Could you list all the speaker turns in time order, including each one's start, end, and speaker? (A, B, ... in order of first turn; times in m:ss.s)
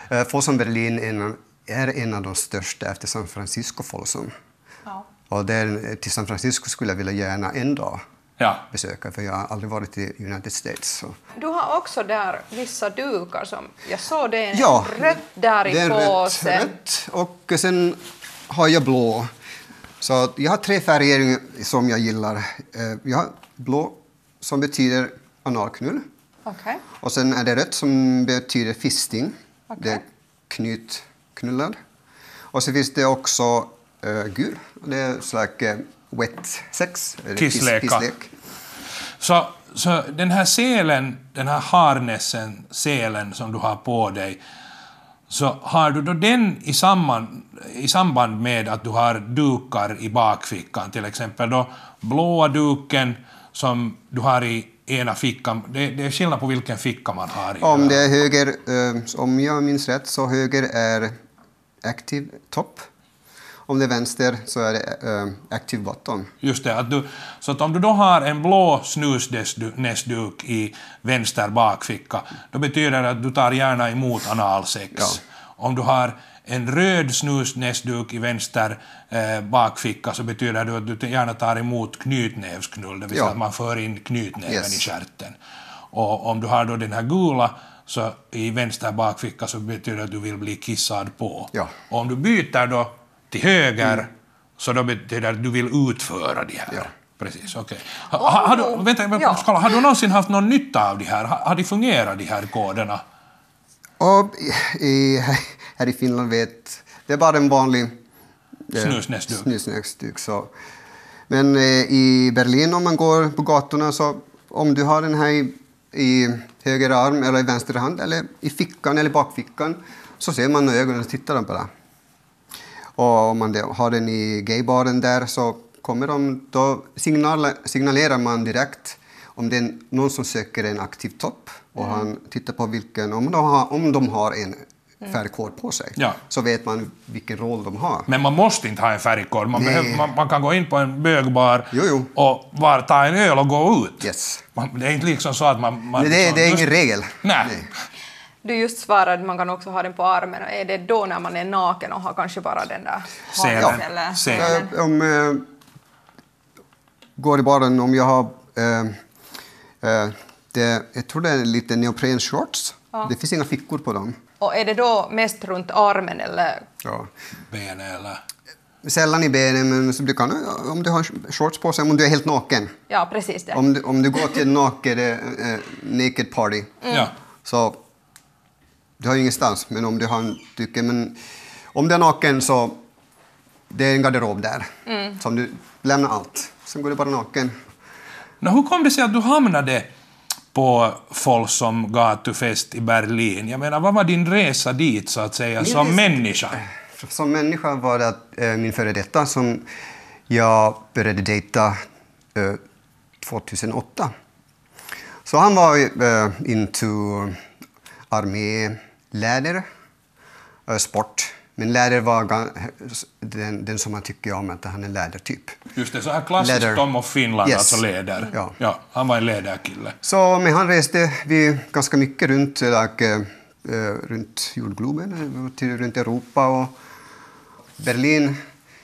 0:00.1-0:04.3 A
0:05.3-0:08.0 A
0:08.4-0:08.6 B
0:08.7-0:11.2 A
0:11.4-0:16.7 C
0:14.5-0:19.3 A
0:20.0-0:26.0 A
0:26.5-0:26.8 C
0:27.0-0:31.8 A
0:29.7-0:30.0 C
0:32.5-0:38.3 A
0:37.4-0:38.1 B
0:39.2-0:44.4 B
0:45.3-0:58.0 B
0:57.6-1:01.1 A
1:01.8-1:02.9 A
1:03.7-1:06.3 A
1:06.4-1:25.4 B
1:24.5-1:24.9 A
1:25.9-1:43.0 B
1:38.2-1:39.4 C
1:44.0-1:47.9 A
1:48.7-1:50.5 A
1:48.7-1:49.5 B
1:51.3-2:01.7 A
2:03.0-2:18.1 A
2:18.1-2:26.7 B
2:19.5-2:20.1 A
2:21.7-2:22.1 A
2:24.0-2:24.4 A
2:26.0-2:27.7 A
2:27.2-2:27.6 B
2:28.4-2:34.7 C
2:33.4-2:34.6 B
2:33.6-2:35.5 A
2:37.2-2:39.0 A
2:39.8-2:44.2 A
2:44.4-2:46.6 C
2:46.8-2:47.1 A
2:47.5-2:48.2 B
2:48.8-2:52.7 A
2:52.9-2:53.6 C
2:53.5-2:56.8 A
2:56.8-2:57.1 C
2:57.4-2:57.8 A
2:59.0-3:01.2 A
3:01.7-3:02.8 A
3:03.7-3:07.6 A
3:04.9-3:05.2 C
3:08.4-3:09.9 B
3:10.5-3:16.6 B
3:15.6-3:19.7 A
3:20.3-3:21.8 A
3:22.4-3:22.6 A
3:23.2-3:24.1 A
3:25.3-3:27.4 A
3:28.1-3:29.7 A
3:30.7-3:35.6 A
3:35.8-3:40.0 B
3:36.4-3:36.8 A
3:37.4-3:38.6 A
3:40.0-3:46.7 A
3:47.8-3:48.4 A